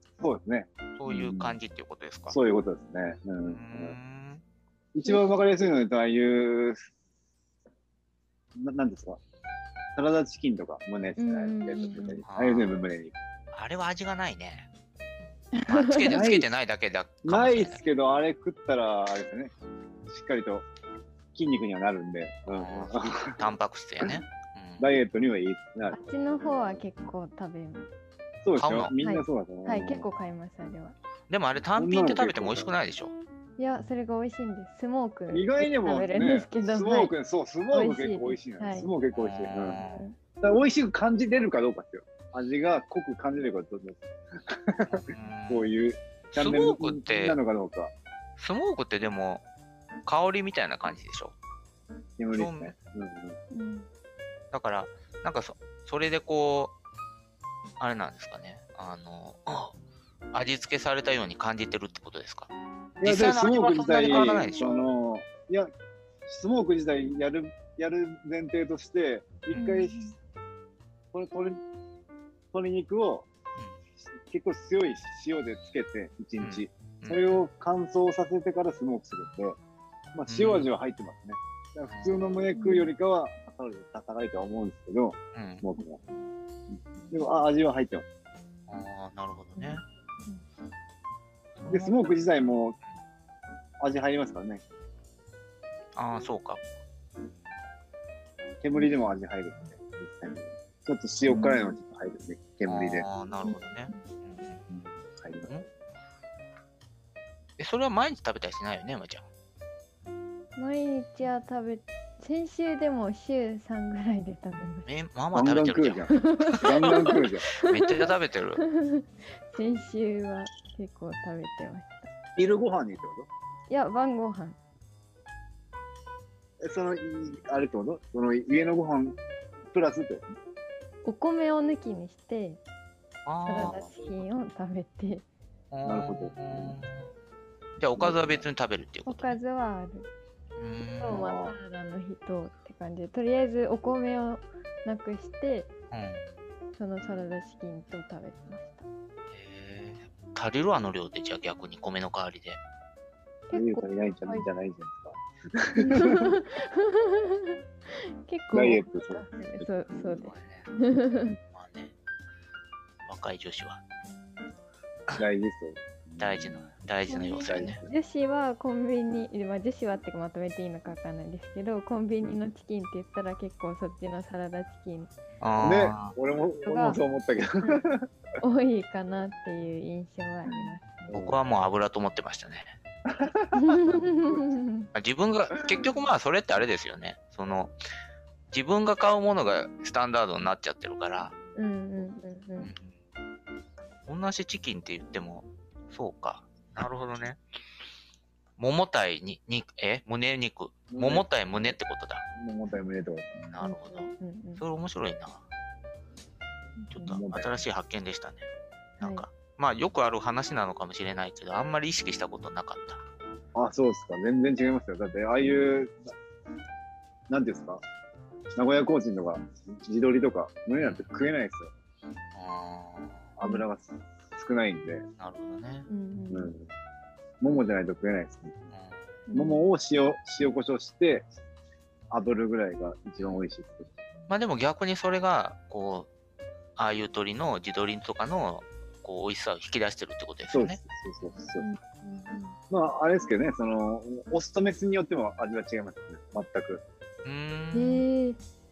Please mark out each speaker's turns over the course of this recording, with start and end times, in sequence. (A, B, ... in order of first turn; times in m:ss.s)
0:00.2-0:01.6 A
0:01.0-0:02.4 B
0:02.3-0:04.0 A
0:03.4-0:04.4 B
0:04.9-0:06.8 A
0:05.0-0:05.3 C
0:08.6-0:09.2 A
0:10.0-0:13.1 A
0:11.2-0:12.2 C
0:12.2-0:12.8 B
0:13.5-0:14.7 B
0:15.5-0:16.2 C
0:15.6-0:17.8 B
0:16.1-0:16.5 A
0:17.2-0:19.5 A
0:20.1-0:20.6 A
0:21.3-0:23.4 A
0:22.5-0:24.9 B
0:24.8-0:26.8 A
0:25.9-0:27.9 C
0:28.4-0:30.1 A
0:28.6-0:28.9 B
0:29.0-0:31.0 C
0:31.3-0:33.1 B
0:31.8-0:32.7 A
0:33.6-0:37.1 C
0:35.3-0:39.8 A
0:37.7-0:38.9 C
0:39.1-0:40.0 B
0:39.7-0:40.2 C
0:40.4-0:47.9 A
0:44.9-0:45.7 B
0:46.3-0:47.4 B
0:48.4-0:49.4 B
0:50.0-0:51.3 B
0:52.2-0:53.4 A
0:52.3-0:52.7 B
0:53.5-0:53.9 C
0:54.5-0:56.7 B
0:57.8-0:59.7 B
1:00.3-1:02.5 B
1:03.0-1:05.7 A
1:03.0-1:04.8 B
1:03.8-1:04.7 C
1:06.2-1:10.1 A
1:09.5-1:10.1 C
1:11.1-1:11.6 A
1:12.5-1:13.3 A
1:14.2-1:19.6 A
1:16.4-1:17.2 B
1:20.1-1:26.0 A
1:20.3-1:20.7 B
1:21.9-1:22.5 B
1:22.5-1:22.9 C
1:25.3-1:25.6 B
1:27.1-1:28.0 A
1:28.7-1:29.8 B
1:29.6-1:30.4 C
1:31.6-1:32.2 B
1:31.7-1:32.8 A
1:33.8-1:34.6 A
1:36.0-1:36.6 B
1:38.6-1:43.1 A
1:38.7-1:39.0 C
1:41.3-1:41.5 B
1:41.3-1:41.8 C
1:42.6-1:44.6 B
1:43.4-1:44.0 C
1:44.7-1:45.6 A
1:47.6-1:49.2 B
1:50.6-1:54.9 C
1:54.8-1:57.1 B
1:55.3-1:57.5 A
1:56.1-2:02.1 C
1:57.6-1:58.6 B
2:02.4-2:03.3 A
2:03.7-2:04.6 C
2:06.6-2:09.2 A
2:09.7-2:10.3 A
2:11.0-2:12.6 C
2:13.2-2:13.8 B
2:13.4-2:15.2 C
2:13.6-2:13.9 A
2:15.7-2:17.1 B
2:15.8-2:16.8 A
2:17.8-2:19.4 B
2:18.0-2:18.4 A
2:19.0-2:20.1 C
2:20.6-2:21.3 B
2:21.0-2:25.7 C
2:21.1-2:21.6 A
2:25.9-2:26.2 B
2:26.8-2:28.9 C
2:29.3-2:32.6 B
2:33.5-2:34.4 C
2:33.5-2:36.3 A
2:35.8-2:41.4 C
2:38.5-2:40.2 A
2:40.2-2:40.7 B
2:41.5-2:41.9 B
2:43.0-2:43.8 B
2:45.1-2:47.9 A
2:46.2-2:47.8 B
2:47.1-2:55.1 C
2:55.4-2:56.1 B
2:55.6-2:58.1 A
2:56.6-2:57.0 C
2:58.4-3:01.1 C
3:00.4-3:01.4 A
3:01.1-3:02.7 B
3:03.1-3:03.6 A
3:03.5-3:04.9 C
3:04.9-3:07.7 B
3:08.5-3:11.3 B
3:11.5-3:12.7 C
3:12.6-3:12.9 B
3:14.1-3:17.4 B
3:18.6-3:22.2 B
3:20.9-3:21.8 A
3:22.4-3:23.4 A
3:23.4-3:25.4 B
3:23.6-3:24.6 C
3:26.8-3:27.2 C
3:26.9-3:28.4 B
3:27.0-3:27.6 A
3:29.0-3:29.2 C
3:29.0-3:33.0 B
3:33.5-3:36.1 A
3:37.3-3:37.8 A
3:38.6-3:41.7 A
3:40.8-3:41.1 B
3:42.3-3:43.2 B
3:43.4-3:45.0 A
3:45.2-3:45.9 B
3:45.9-3:46.5 C
3:46.3-3:46.7 A
3:47.4-3:48.7 A
3:48.7-3:49.0 B
3:49.3-3:49.7 C
3:49.3-3:51.3 A
3:52.1-3:53.9 A
3:53.2-3:53.4 B
3:54.3-3:56.1 B
3:56.8-4:00.8 B
4:00.5-4:01.7 A
4:01.6-4:02.6 C
4:02.7-4:06.8 A
4:07.2-4:08.0 B
4:07.7-4:08.4 C